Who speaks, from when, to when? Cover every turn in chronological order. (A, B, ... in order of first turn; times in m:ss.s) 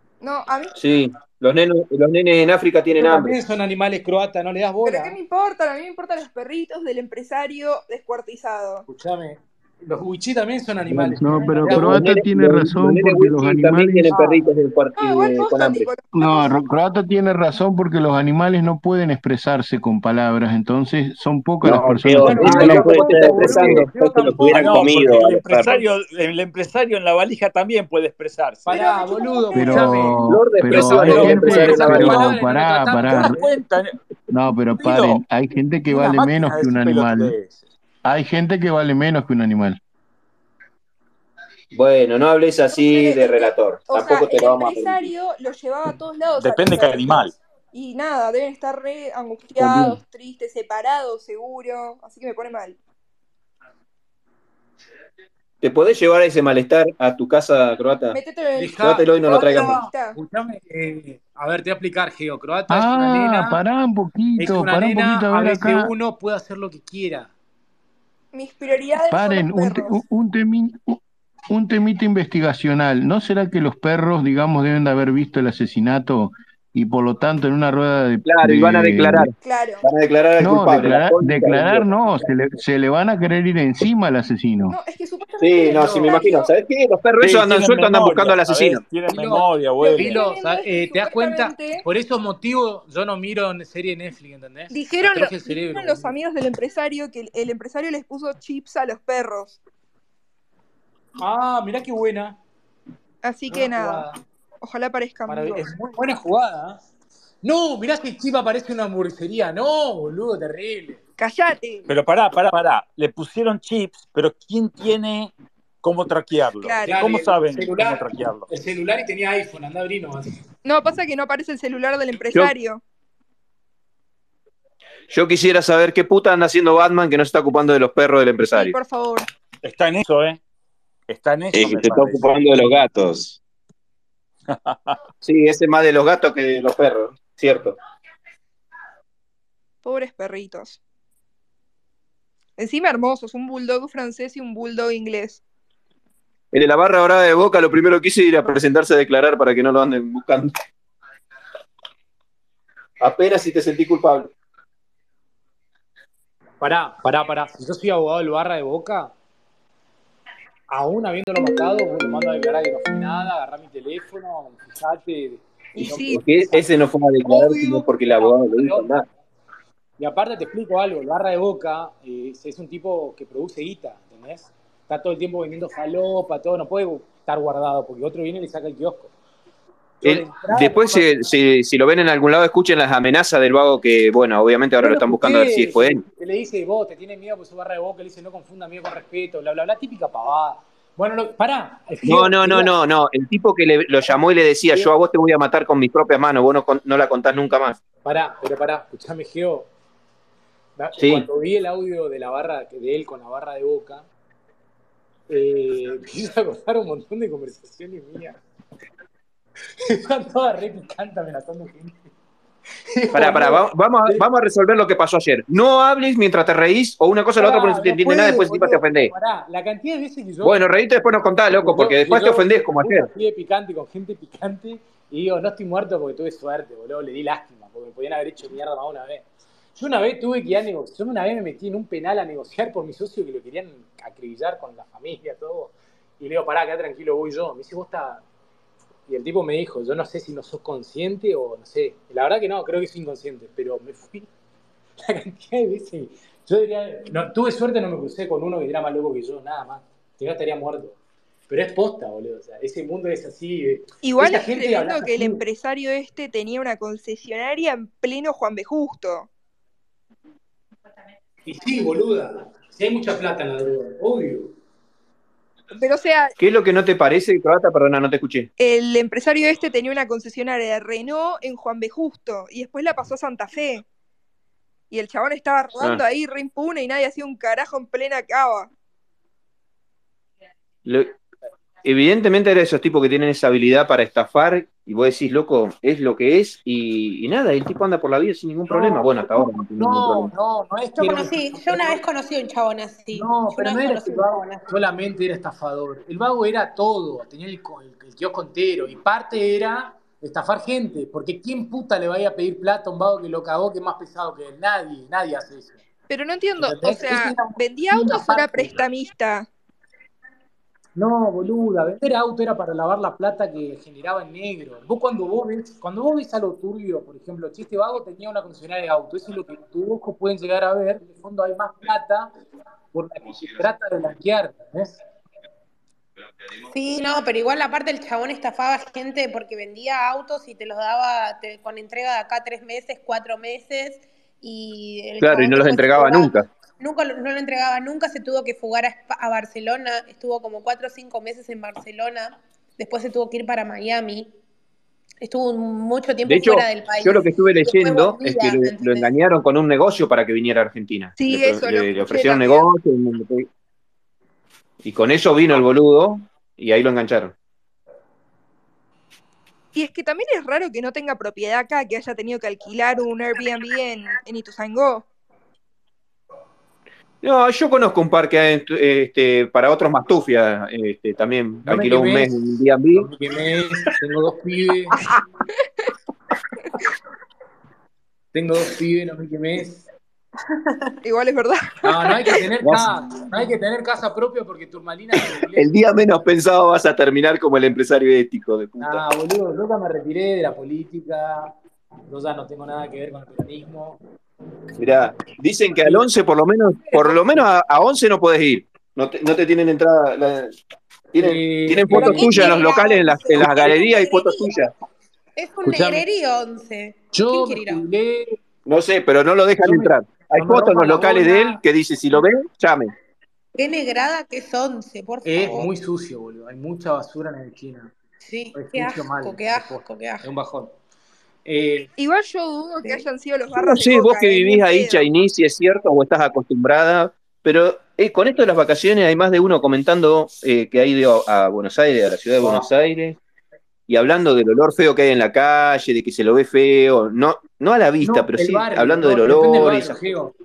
0:00.2-0:00.7 A
0:00.8-0:03.4 B
0:03.0-0:05.2 C
0:04.8-0:08.8 A
0:08.9-0:12.2 C
0:10.9-0:14.2 D
0:11.7-0:15.9 B
0:15.0-0:16.5 A
0:16.1-0:22.7 D
0:21.6-0:23.9 E
0:22.2-0:25.2 C
0:22.2-0:25.8 B
0:24.4-0:25.3 E
0:24.5-0:28.7 F
0:28.7-0:33.7 C
0:28.7-0:29.7 A
0:29.5-0:33.4 D
0:30.3-0:32.4 B
0:31.0-0:32.3 F
0:33.0-0:34.0 F
0:34.3-0:37.4 D
0:34.8-0:35.2 F
0:35.9-0:37.7 F
0:38.0-0:39.8 D
0:41.7-0:45.1 B
0:42.7-0:52.8 A
0:46.4-0:47.3 F
0:55.6-0:58.2 B
0:58.1-1:00.2 A
0:58.6-1:03.6 C
0:58.8-0:59.8 B
1:02.7-1:05.9 D
1:04.4-1:07.3 C
1:08.3-1:10.0 A
1:09.1-1:11.0 D
1:11.5-1:19.3 D
1:18.2-1:22.3 B
1:19.4-1:19.9 A
1:20.4-1:24.8 D
1:24.7-1:26.5 A
1:25.4-1:28.9 B
1:25.7-1:26.2 C
1:27.2-1:30.3 F
1:29.1-1:36.2 C
1:29.8-1:31.8 A
1:34.7-1:39.6 A
1:41.2-1:42.4 C
1:43.2-1:44.1 A
1:43.5-1:44.2 C
1:44.6-1:45.7 A
1:45.3-1:46.8 C
1:47.4-1:51.0 C
1:51.2-1:51.9 A
1:51.9-1:58.5 F
1:56.6-1:57.1 A
1:56.8-2:00.4 C
2:00.6-2:02.8 A
2:05.1-2:08.8 B
2:08.5-2:09.3 A
2:09.6-2:10.4 F
2:11.1-2:12.3 F
2:11.5-2:13.4 E
2:14.5-2:15.0 F
2:15.2-2:17.8 B
2:19.8-2:20.8 A
2:22.6-2:25.4 A
2:26.5-2:30.5 B
2:33.0-2:34.3 B
2:36.6-2:39.1 C
2:40.7-2:46.6 C
2:45.8-2:46.2 A
2:45.8-2:49.1 B
2:47.2-2:48.9 C
2:50.0-2:59.1 C
3:00.0-3:01.3 C
3:00.0-3:06.0 B
3:04.8-3:12.7 C
3:12.0-3:17.8 B
3:18.0-3:19.7 C
3:20.8-3:24.1 C
3:21.0-3:21.3 B
3:25.3-3:28.4 C
3:29.9-3:32.1 C
3:32.9-3:34.2 C
3:33.1-3:39.1 B
3:37.4-3:40.6 C
3:40.4-3:43.1 B
3:41.5-3:49.2 C
3:49.8-3:58.2 C
3:59.1-4:04.3 C
4:05.0-4:11.0 C
4:11.5-4:15.4 C
4:14.0-4:19.3 A
4:21.4-4:24.5 C
4:25.8-4:26.4 A
4:26.4-4:28.5 B
4:28.6-4:33.8 A
4:34.9-4:38.7 A
4:40.8-4:41.1 B
4:41.8-4:50.3 B
4:48.7-4:52.0 C
4:51.0-4:54.7 G
4:53.1-5:05.8 C
5:06.1-5:09.5 A
5:06.6-5:08.8 C
5:11.0-5:22.3 C
5:22.9-5:25.0 C
5:26.7-5:44.3 G
5:35.2-5:36.5 B
5:45.2-5:49.1 G
5:46.3-5:53.5 B
5:51.2-5:52.7 A
5:54.8-5:57.3 B
5:59.7-6:05.1 A
6:07.2-6:13.1 B
6:11.7-6:12.3 C
6:13.0-6:15.0 C
6:18.3-6:19.9 C
6:21.0-6:22.4 A
6:21.8-6:25.7 C
6:22.6-6:22.9 B
6:25.6-6:29.0 B
6:28.8-6:31.5 C
6:32.1-6:34.0 C
6:34.8-6:40.5 B
6:35.8-6:36.1 C
6:41.1-6:44.7 B
6:41.2-6:42.6 C
6:42.0-6:44.6 G
6:42.5-6:43.3 A
6:45.4-6:47.8 G
6:45.6-6:46.0 C
6:47.1-6:48.4 C
6:48.7-6:52.9 B
6:49.6-6:51.6 C
6:53.6-6:55.7 G
6:55.2-6:57.9 C
6:58.2-7:00.3 G
6:58.5-7:00.7 C
7:01.4-7:01.9 C
7:02.0-7:05.1 A
7:03.6-7:13.2 B
7:13.9-7:20.0 B
7:18.0-7:20.3 C